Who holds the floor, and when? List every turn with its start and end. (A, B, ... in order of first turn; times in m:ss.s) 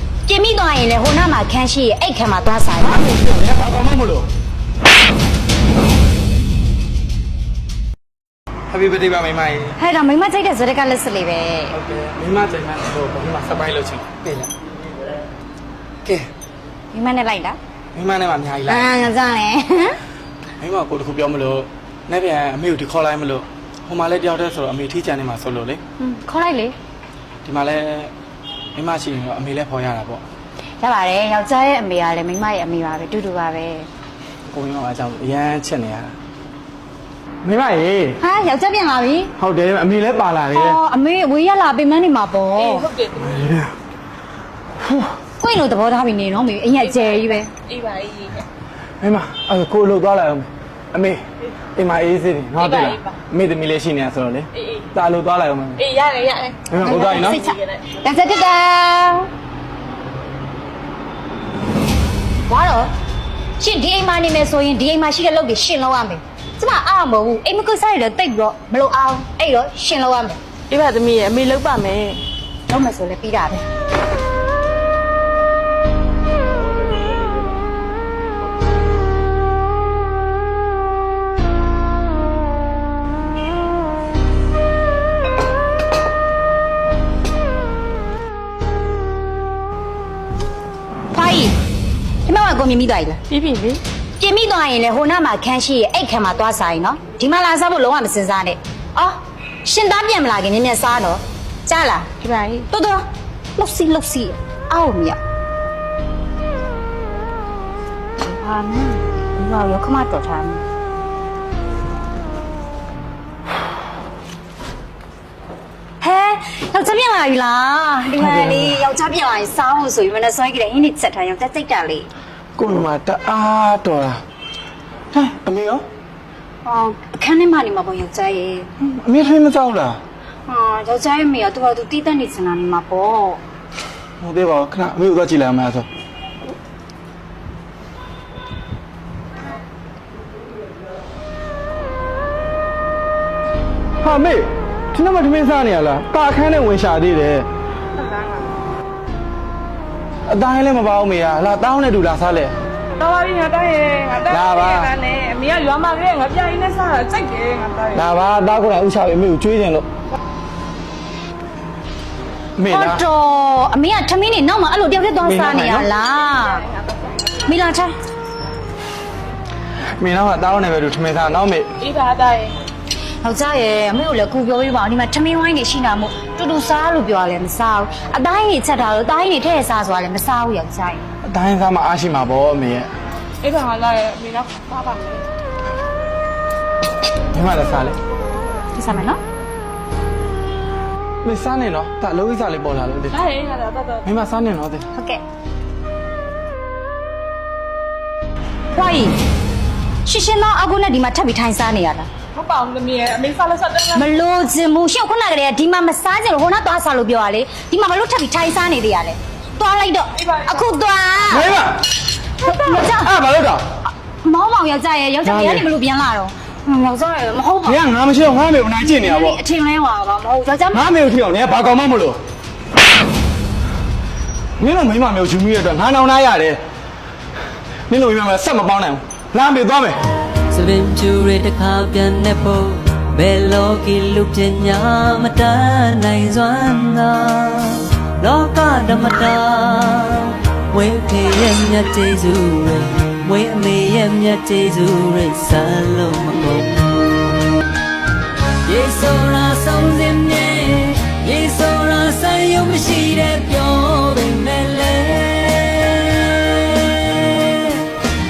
0:00.2-0:03.0 A
0:02.8-0:04.3 B
0:08.7-0:09.8 B
0:09.8-0:11.8 A
0:11.7-0:14.5 B
0:16.9-0:17.6 A
0:17.9-0:18.9 B
0:18.7-0:20.0 A
0:20.6-0:25.8 B
0:26.0-0:26.8 A
0:27.4-0:28.1 B
0:28.8-0:30.2 B
0:30.8-0:33.9 A
0:34.5-0:36.2 B
0:37.4-0:38.2 B
0:38.2-0:39.3 A
0:39.4-0:40.8 B
0:40.5-0:42.9 A
0:42.6-0:43.6 C
0:43.2-0:43.7 B
0:44.8-0:45.1 B
0:45.4-0:47.5 A
0:46.8-0:48.5 C
0:49.0-0:51.2 B
0:51.8-0:55.8 B
0:52.6-0:53.2 C
0:54.6-0:54.9 C
0:55.8-0:57.8 C
0:56.7-0:57.4 B
0:56.8-0:59.3 A
1:02.5-1:02.9 A
1:03.6-1:10.4 A
1:10.7-1:12.2 C
1:12.7-1:13.6 A
1:31.1-1:31.5 A
1:32.2-1:33.2 A
1:33.3-1:33.8 C
1:34.2-1:42.1 A
1:42.2-1:42.7 C
1:42.7-1:43.0 A
1:43.6-1:45.2 A
1:48.2-1:50.6 A
1:56.0-2:02.1 A
1:58.2-1:58.8 B
2:02.6-2:04.2 B
2:05.1-2:05.8 B
2:06.6-2:08.7 A
2:08.8-2:10.0 B
2:10.5-2:13.4 A
2:14.2-2:15.9 B
2:24.0-2:27.5 B
2:28.0-2:28.5 C
2:30.3-2:32.6 B
2:33.0-2:38.0 C
2:34.2-2:34.9 B
2:37.9-2:39.9 B
2:42.6-2:43.0 B
2:42.7-2:46.6 A
2:45.2-2:45.9 B
2:46.7-2:47.2 C
2:47.4-2:47.9 A
2:50.0-2:51.7 B
2:51.8-2:52.6 C
2:53.2-3:01.0 A
3:01.2-3:02.9 B
3:03.4-3:05.3 C
3:07.3-3:08.0 B
3:08.8-3:09.2 A
3:11.2-3:13.2 B
3:13.1-3:14.1 C
3:14.0-3:14.9 B
3:14.9-3:15.2 A
3:18.7-3:19.2 A
3:20.1-3:22.1 A
3:22.3-3:24.0 C
3:23.9-3:31.5 A
3:31.3-3:31.8 B
3:32.4-3:33.1 A
3:32.9-3:33.6 B
3:34.2-3:37.8 A
3:35.2-3:35.7 B
3:37.7-3:39.4 B
3:38.8-3:40.9 A
3:40.7-3:42.2 B
3:44.6-3:46.6 B
3:47.9-3:50.0 B
3:50.5-4:07.6 D
4:08.6-4:17.9 D